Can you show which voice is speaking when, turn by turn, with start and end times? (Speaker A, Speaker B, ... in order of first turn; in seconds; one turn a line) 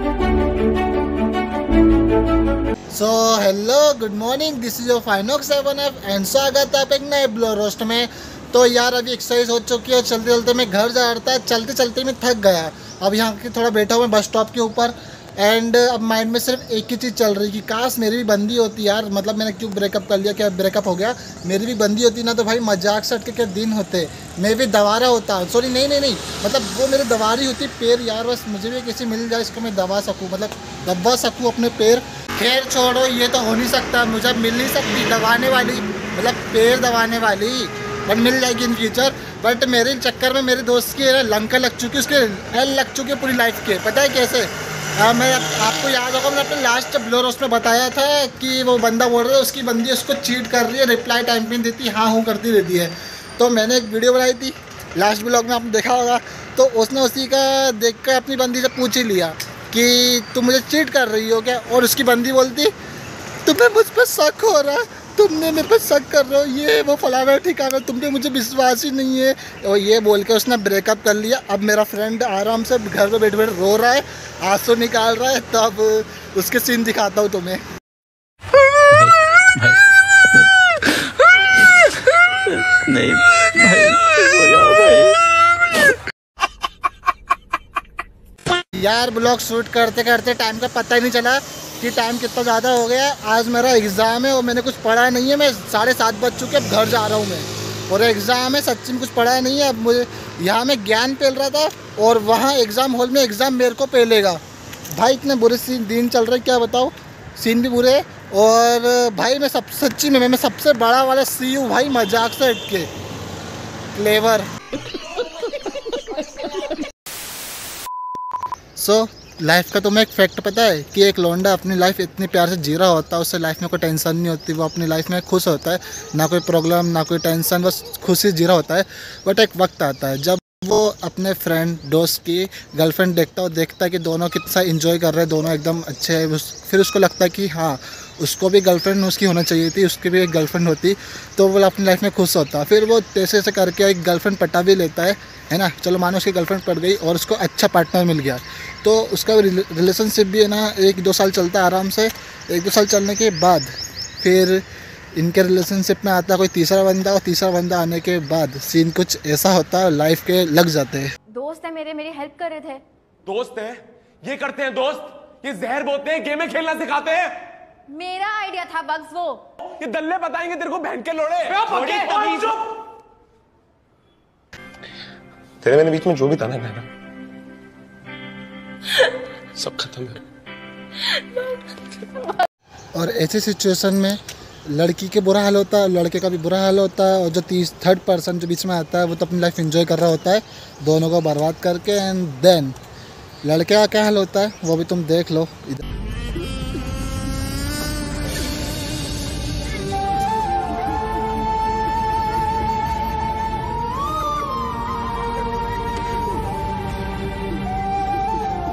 Speaker A: 2.9-62.7
Speaker A: 63.4-77.6
Speaker B: 78.9-81.1
Speaker B: 81.8-85.2
Speaker A: 88.7-104.4
Speaker A: 104.9-112.9
Speaker A: 113.9-114.5
Speaker B: 115.9-116.8
Speaker A: 118.8-154.6
Speaker A: 155.1-161.1
Speaker C: 161.3-162.8
Speaker D: 163.2-167.5
Speaker C: 167.9-169.4
Speaker D: 169.6-172.6
Speaker D: 175.6-176.8
Speaker D: 179.6-180.2
Speaker A: 182.9-192.8
Speaker A: 193.4-195.8